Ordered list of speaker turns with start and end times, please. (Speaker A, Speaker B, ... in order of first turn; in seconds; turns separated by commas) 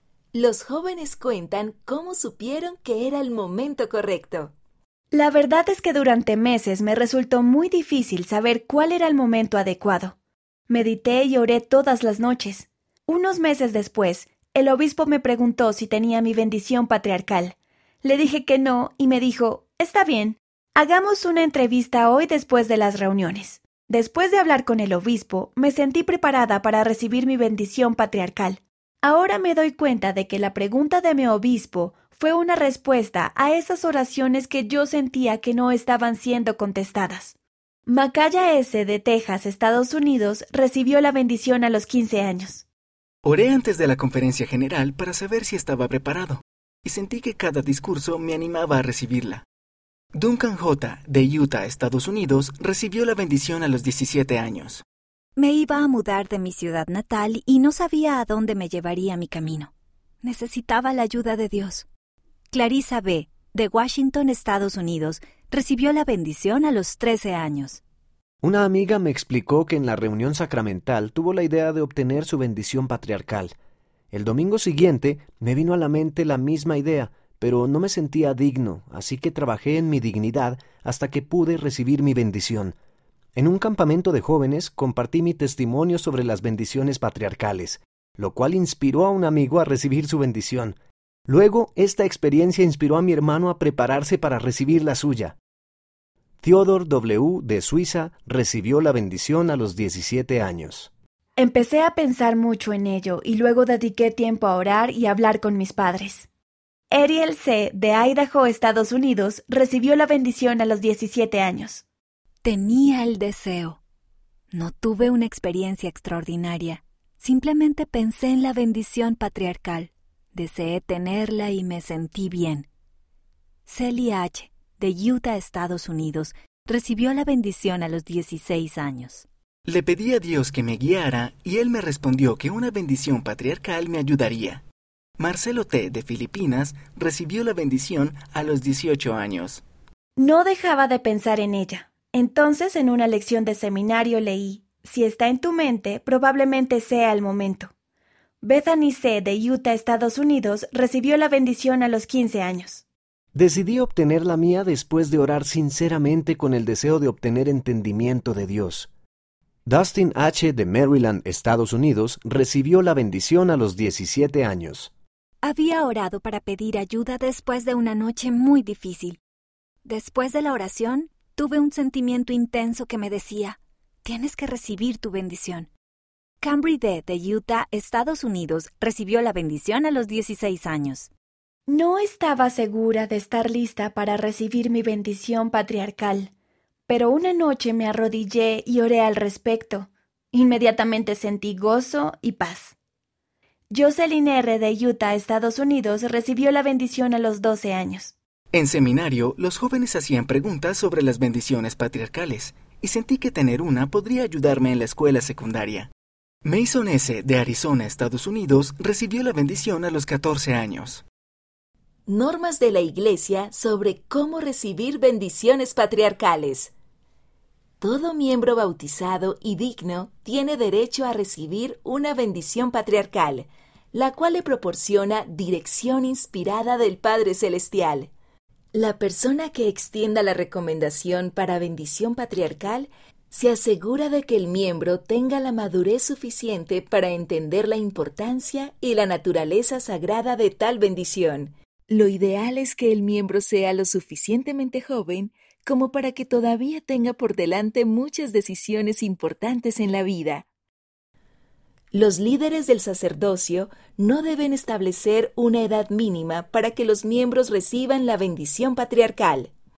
Speaker A: 0.3-4.5, Speaker B: 5.1-10.2, Speaker B: 10.7-37.3, Speaker B: 37.9-42.6, Speaker C: 43.2-49.5, Speaker C: 50.1-54.8, Speaker D: 55.4-59.7, Speaker D: 60.2-61.9, Speaker D: 62.5-67.8, Speaker E: 68.4-73.5, Speaker E: 74.1-82.7, Speaker E: 83.3-90.8, Speaker E: 91.3-95.4, Speaker E: 96.4-100.9, Speaker B: 101.4-106.3, Speaker B: 106.9-111.8, Speaker D: 112.4-113.8, Speaker D: 114.5-122.7, Speaker D: 123.7-129.2, Speaker C: 129.7-134.6, Speaker C: 135.2-139.6, Speaker B: 140.2-147.7, Speaker B: 148.4-152.8, Speaker E: 153.3-158.9, Speaker E: 159.6-164.9, Speaker D: 165.4-169.2, Speaker D: 169.8-175.7, Speaker D: 176.4-181.1, Speaker B: 181.7-186.3, Speaker B: 186.9-192.7, Speaker B: 193.7-198.1, Speaker C: 198.5-205.9, Speaker C: 206.4-211.0, Speaker A: 212.1-216.7, Speaker A: 217.8-228.1, Speaker A: 228.7-250.5, Speaker A: 251.9-259.5